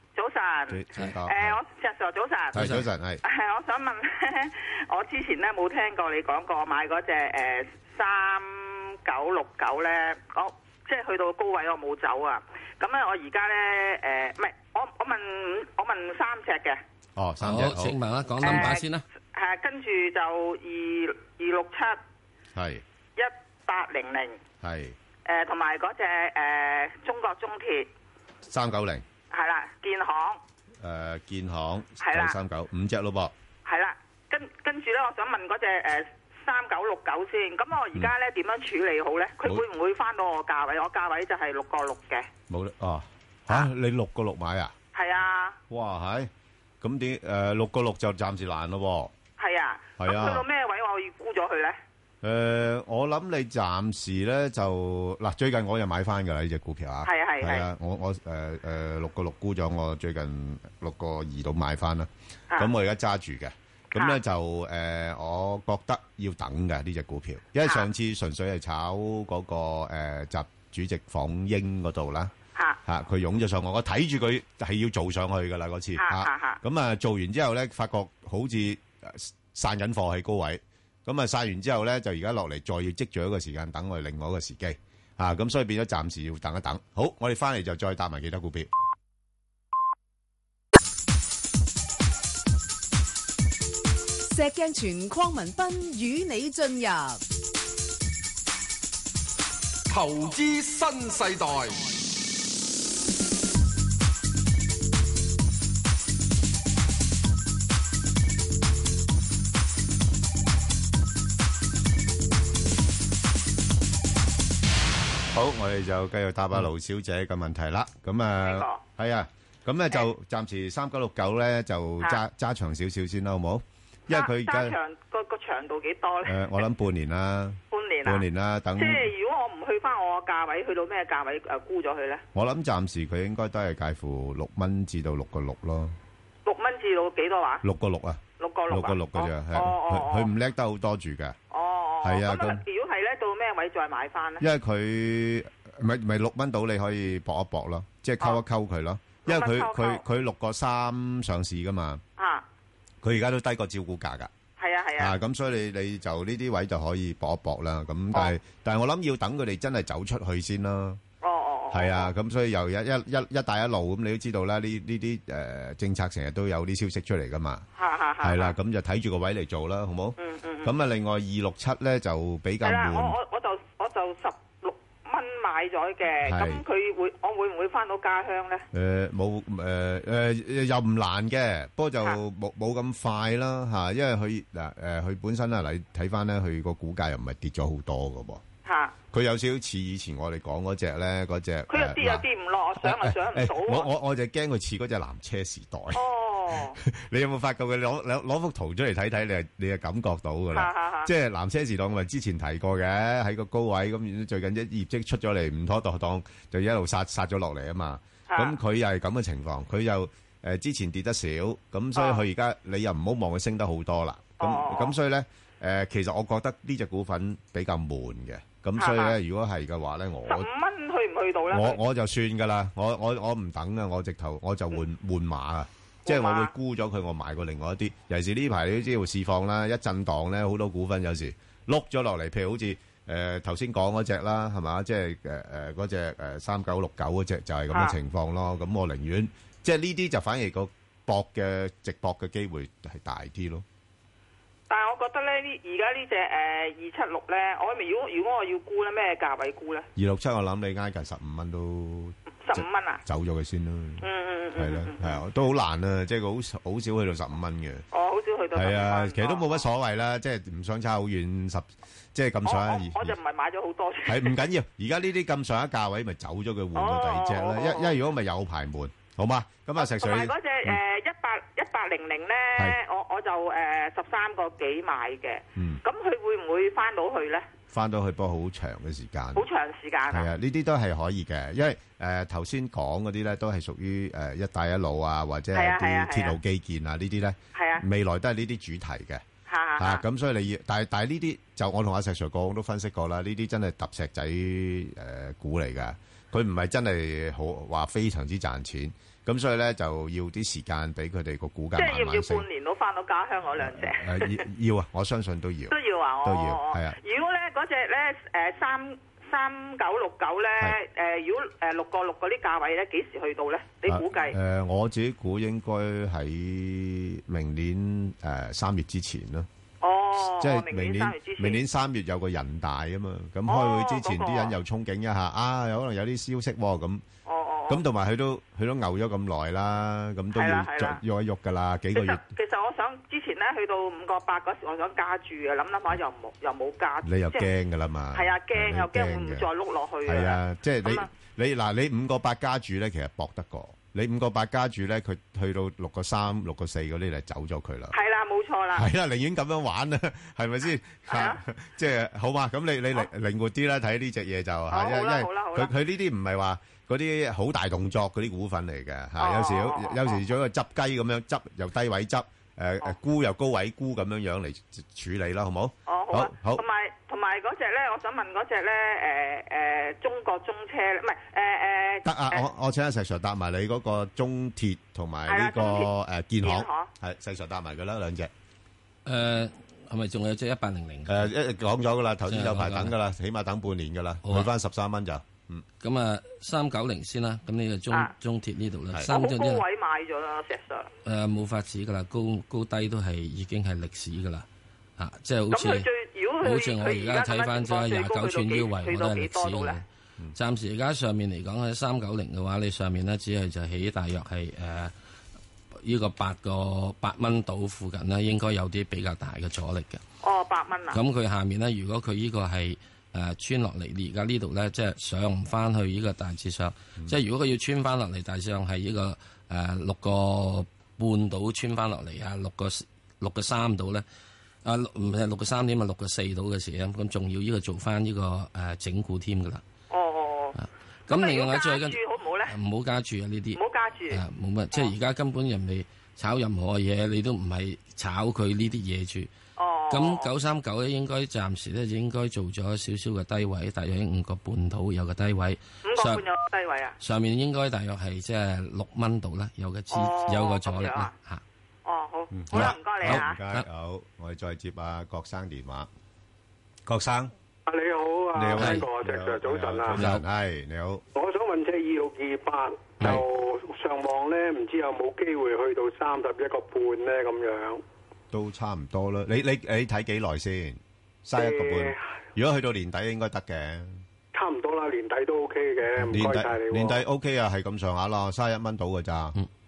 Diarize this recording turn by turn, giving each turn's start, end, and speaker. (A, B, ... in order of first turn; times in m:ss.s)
0:00.1-0:02.6 A
0:00.7-0:01.6 B
0:02.5-0:03.2 B
0:02.6-0:02.8 C
0:03.2-0:16.8 A
0:17.2-0:18.7 B
0:17.4-0:19.0 C
0:18.4-0:18.8 A
0:19.3-0:22.0 A
0:22.5-0:22.8 B
0:23.2-0:24.4 A
0:24.6-0:25.0 B
0:25.2-0:27.9 A
0:28.4-0:29.0 B
0:29.3-0:30.4 A
0:30.8-0:33.3 B
0:32.0-0:32.4 A
0:33.6-0:42.3 A
0:42.5-0:44.7 B
0:44.9-0:45.6 A
0:45.7-0:46.3 B
0:46.8-0:49.1 B
0:49.4-0:51.8 A
0:50.0-0:50.4 B
0:52.2-1:12.3 B
0:57.0-0:57.7 A
1:03.9-1:04.2 A
1:12.8-1:28.7 B
1:16.0-1:16.6 A
1:34.3-1:37.2 D
1:39.9-1:41.9 E
1:55.3-2:04.8 B
1:58.4-1:58.8 A
2:04.1-2:06.5 A
2:06.2-2:09.1 B
2:07.7-2:08.2 A
2:08.8-2:12.2 A
2:12.3-2:16.0 B
2:16.4-2:17.6 A
2:17.6-2:21.4 B
2:18.4-2:20.3 A
2:21.5-2:24.4 A
2:22.0-2:22.6 B
2:24.4-2:32.0 B
2:29.2-2:30.0 A
2:32.2-2:32.4 A
2:33.0-2:34.3 B
2:34.6-2:35.1 A
2:35.0-2:41.0 B
2:41.2-2:42.1 A
2:41.7-2:47.6 B
2:47.8-2:48.5 A
2:48.2-2:53.2 B
2:50.2-2:50.7 A
2:52.6-2:58.6 A
2:56.2-2:56.6 B
2:58.7-3:08.4 B
3:08.6-3:08.9 A
3:09.1-3:12.2 B
3:11.7-3:13.9 A
3:12.8-3:40.5 B
3:15.9-3:16.8 A
3:20.5-3:21.1 A
3:28.3-3:28.6 A
3:32.0-3:32.2 A
3:34.4-3:34.9 A
3:38.8-3:39.2 A
3:40.3-3:41.8 A
3:41.5-4:03.6 B
3:46.0-3:46.5 A
4:04.7-4:09.9 A
4:10.0-4:14.0 B
4:12.4-4:13.0 A
4:14.0-4:15.2 A
4:14.6-4:17.8 B
4:17.9-4:19.6 A
4:18.5-4:23.2 B
4:22.4-4:24.4 A
4:24.0-4:30.8 B
4:26.7-4:28.0 A
4:29.8-4:37.4 A
4:35.6-4:35.8 B
4:37.7-4:39.4 B
4:39.3-4:40.3 A
4:40.1-4:49.2 B
4:45.5-4:46.4 A
4:47.5-4:47.8 A
4:49.5-4:50.0 A
4:49.8-5:02.4 B
5:01.8-5:04.4 A
5:03.6-5:07.0 B
5:05.7-5:14.4 A
5:13.9-5:19.5 B
5:19.8-5:21.6 A
5:20.4-5:27.0 B
5:23.5-5:24.5 A
5:27.2-5:27.8 A
5:27.7-5:32.2 B
5:30.3-5:31.0 A
5:31.9-5:37.5 A
5:37.0-5:39.5 B
5:38.1-5:41.1 A
5:40.0-5:47.9 B
5:47.9-5:48.9 A
5:48.7-6:06.6 B
5:51.1-5:51.4 A
5:54.7-5:55.7 A
5:59.2-6:00.2 A
6:05.9-6:12.5 A
6:12.0-6:18.3 B
6:15.3-6:15.9 A
6:16.4-6:16.9 A
6:19.0-6:21.3 C
6:21.1-6:25.6 B
6:22.3-6:22.9 C
6:24.2-6:24.5 C
6:25.8-6:29.6 C
6:29.1-6:30.9 A
6:31.0-6:34.4 C
6:35.0-6:35.9 C
6:35.5-6:39.8 A
6:36.4-6:39.8 C
6:40.3-6:44.9 C
6:45.8-6:50.0 C
6:50.2-6:51.0 A
6:50.9-7:04.0 C
7:04.6-7:09.6 C
7:09.9-7:10.6 A
7:10.6-7:19.3 C
7:11.1-7:12.5 A
7:13.6-7:14.2 A
7:19.6-7:20.3 A
7:19.9-7:26.2 C
7:25.8-7:27.0 A
7:27.0-7:31.4 C
7:29.9-7:31.1 A
7:31.8-7:33.4 A
7:32.3-7:35.9 B
7:32.5-7:33.6 C
7:36.8-7:37.3 B
7:37.7-7:40.0 F
7:38.3-7:41.0 B
7:38.6-7:38.8 C
7:39.9-7:40.2 C
7:41.1-7:47.8 F
7:48.3-7:54.0 B
7:51.4-7:52.0 F
7:54.3-7:57.0 F
7:56.0-7:59.4 B